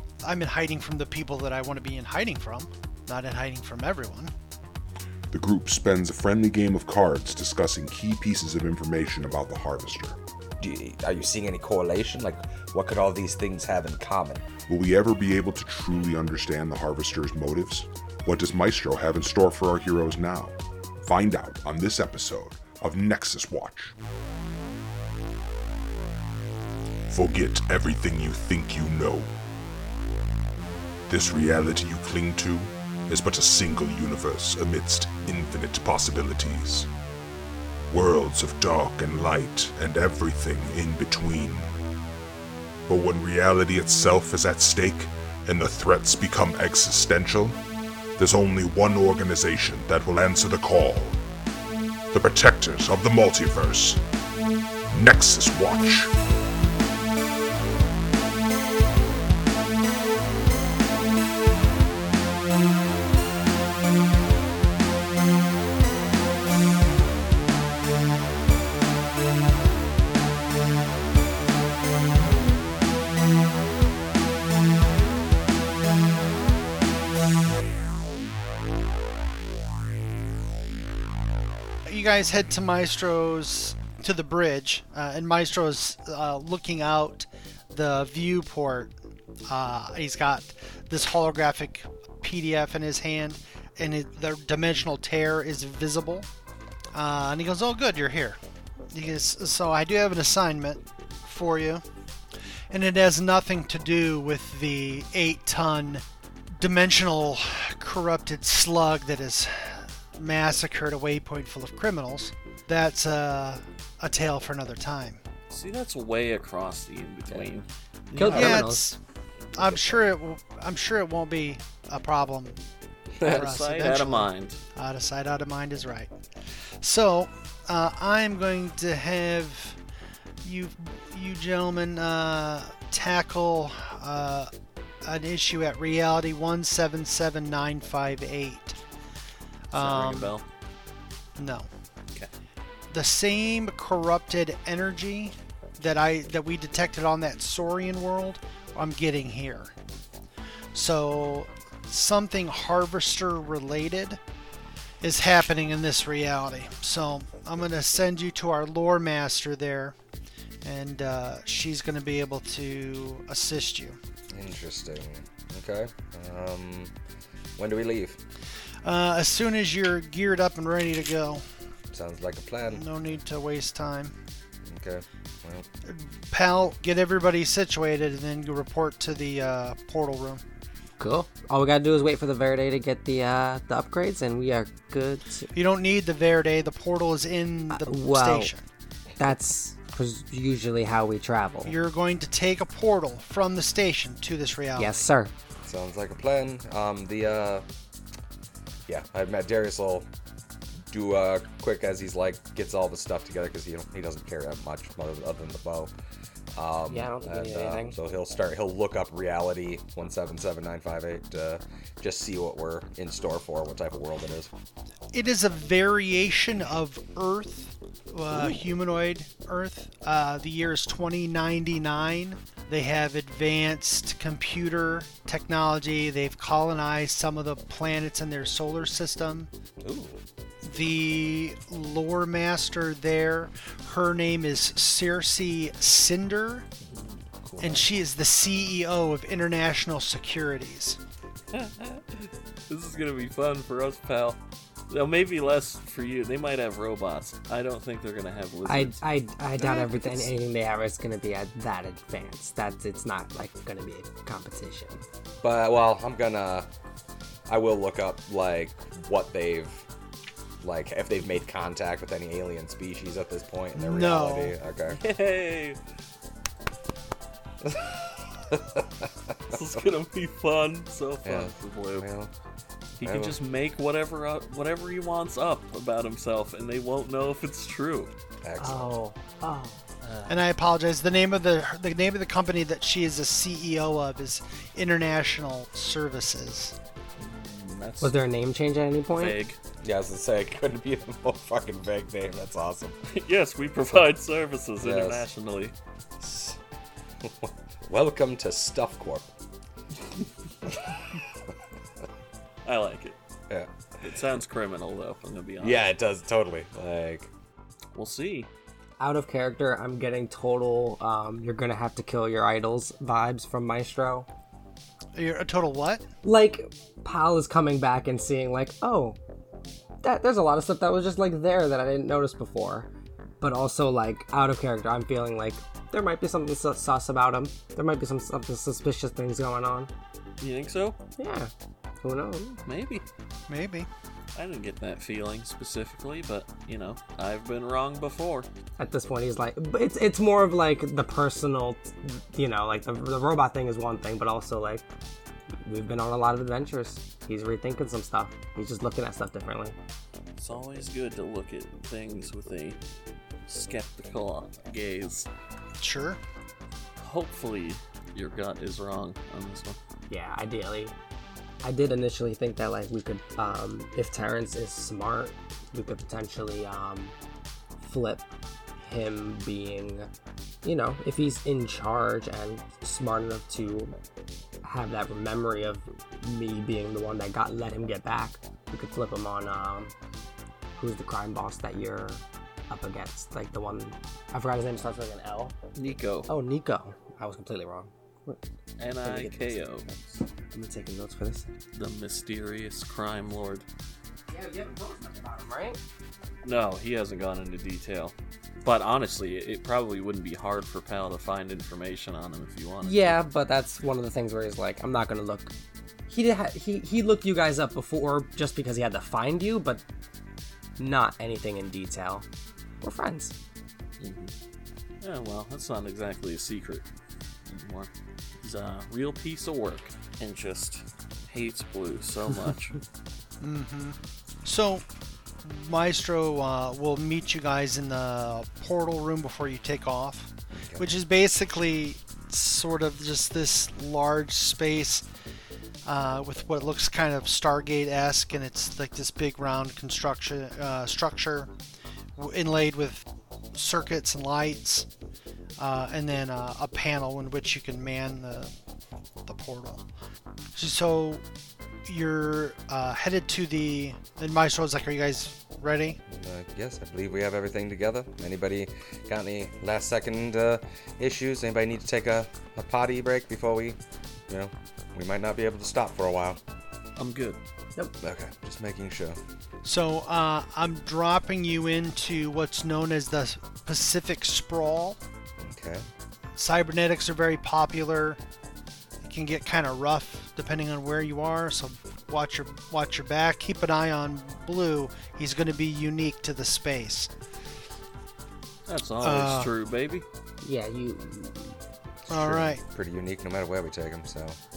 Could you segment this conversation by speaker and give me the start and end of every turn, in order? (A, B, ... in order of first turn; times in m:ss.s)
0:00.2-0:04.3 A
0:05.3-0:10.2 B
0:10.6-0:14.4 C
0:14.7-0:23.9 B
0:27.1-0:29.3 B
0:31.1-0:36.9 B
0:37.9-0:41.7 B
0:42.9-0:47.6 B
0:48.2-0:51.2 B
0:52.1-0:54.0 B
0:54.9-0:56.1 B
1:21.9-1:28.9 A
1:29.5-1:36.3 A
1:36.9-1:38.4 A
1:38.9-1:41.8 A
1:42.7-1:46.0 A
1:46.6-1:55.2 A
1:55.5-1:58.7 D
1:58.1-1:58.9 E
1:58.3-1:59.0 A
1:59.6-2:02.6 A
1:59.6-2:00.0 C
2:03.2-2:03.5 C
2:03.2-2:04.6 D
2:03.2-2:06.1 A
2:06.8-2:09.8 A
2:10.4-2:14.5 A
2:15.0-2:18.8 A
2:19.7-2:20.4 A
2:19.8-2:20.4 D
2:21.4-2:21.7 A
2:22.9-2:29.7 A
2:30.7-2:34.2 A
2:35.0-2:40.0 A
2:40.6-2:44.0 A
2:44.3-2:46.9 C
2:47.6-2:48.2 C
2:48.8-2:51.4 A
2:51.9-2:52.8 C
2:52.7-2:54.1 A
2:54.7-2:55.7 C
2:55.9-3:00.4 A
3:01.0-3:05.5 E
3:05.5-3:08.6 A
3:07.7-3:08.5 E
3:09.2-3:11.8 E
3:11.6-3:15.1 A
3:14.8-3:15.3 E
3:15.6-3:17.6 C
3:18.9-3:20.1 C
3:20.9-3:25.9 C
3:26.6-3:34.5 C
3:26.9-3:28.0 E
3:35.1-3:49.5 A
3:38.3-3:38.6 C
3:49.8-3:50.2 C
3:50.6-3:56.7 A
3:57.4-3:57.9 C
3:57.6-4:01.0 A
4:01.5-4:04.4 D
4:04.9-4:09.0 D
4:08.7-4:15.0 E
4:09.6-4:10.3 D
4:15.4-4:16.7 C
4:17.5-4:19.8 C
4:20.6-4:25.0 C
4:23.7-4:24.6 A
4:24.9-4:25.8 D
4:27.6-4:29.8 C
4:29.5-4:32.1 D
4:31.2-4:32.3 C
4:33.0-4:38.1 D
4:33.0-4:33.4 C
4:38.4-4:38.9 C
4:38.6-4:39.8 E
4:40.0-4:40.3 D
4:40.3-4:46.8 A
4:47.2-4:48.1 D
4:48.0-4:49.4 E
4:49.2-4:49.6 D
4:49.8-4:53.0 C
4:53.1-4:55.7 D
4:54.8-4:55.3 C
4:56.2-4:56.6 C
4:57.2-4:59.3 C
5:02.6-5:03.2 D
5:04.0-5:05.8 D
5:05.6-5:07.3 C
5:07.9-5:08.5 D
5:09.0-5:14.3 E
5:15.2-5:16.0 A
5:16.2-5:19.2 E
5:20.0-5:22.9 E
5:23.4-5:29.9 E
5:30.4-5:31.0 D
5:31.2-5:31.5 E
5:32.0-5:32.6 E
5:32.7-5:33.1 D
5:33.5-5:33.9 A
5:34.4-5:38.5 D
5:38.8-5:44.8 E
5:45.6-5:49.8 E
5:50.4-5:52.8 D
5:53.5-5:55.3 D
5:55.8-5:56.2 A
5:57.0-5:59.8 D
6:00.1-6:00.9 E
6:01.6-6:07.2 E
6:07.8-6:08.2 E
6:08.8-6:10.1 E
6:10.6-6:14.0 E
6:14.6-6:19.9 E
6:20.8-6:25.6 E
6:25.8-6:26.3 D
6:26.3-6:28.4 E
6:28.8-6:30.2 D
6:29.0-6:29.6 E
6:30.5-6:31.5 E
6:31.7-6:33.6 D
6:34.3-6:35.8 E
6:36.4-6:43.2 D
6:42.8-6:45.5 E
6:46.1-6:49.8 E
6:50.8-6:52.2 E
6:52.8-6:53.3 E
6:54.0-6:54.3 D
6:55.0-6:56.8 D
6:57.5-7:02.8 D
7:03.4-7:04.8 A
7:05.4-7:15.0 A
7:10.6-7:10.9 C
7:15.8-7:21.5 A
7:22.2-7:24.9 A
7:25.6-7:28.5 A
7:29.3-7:29.9 A
7:30.6-7:31.2 A
7:31.9-7:36.0 A
7:36.1-7:43.8 C
7:44.3-7:46.4 C
7:47.0-7:47.4 D
7:48.0-7:49.2 C
7:49.6-7:55.0 A
7:55.4-7:55.9 C
7:56.4-7:58.2 A
7:59.0-8:07.1 A
8:08.7-8:10.1 D
8:09.0-8:09.5 A
8:10.4-8:11.6 E
8:12.1-8:14.4 C
8:12.1-8:12.6 A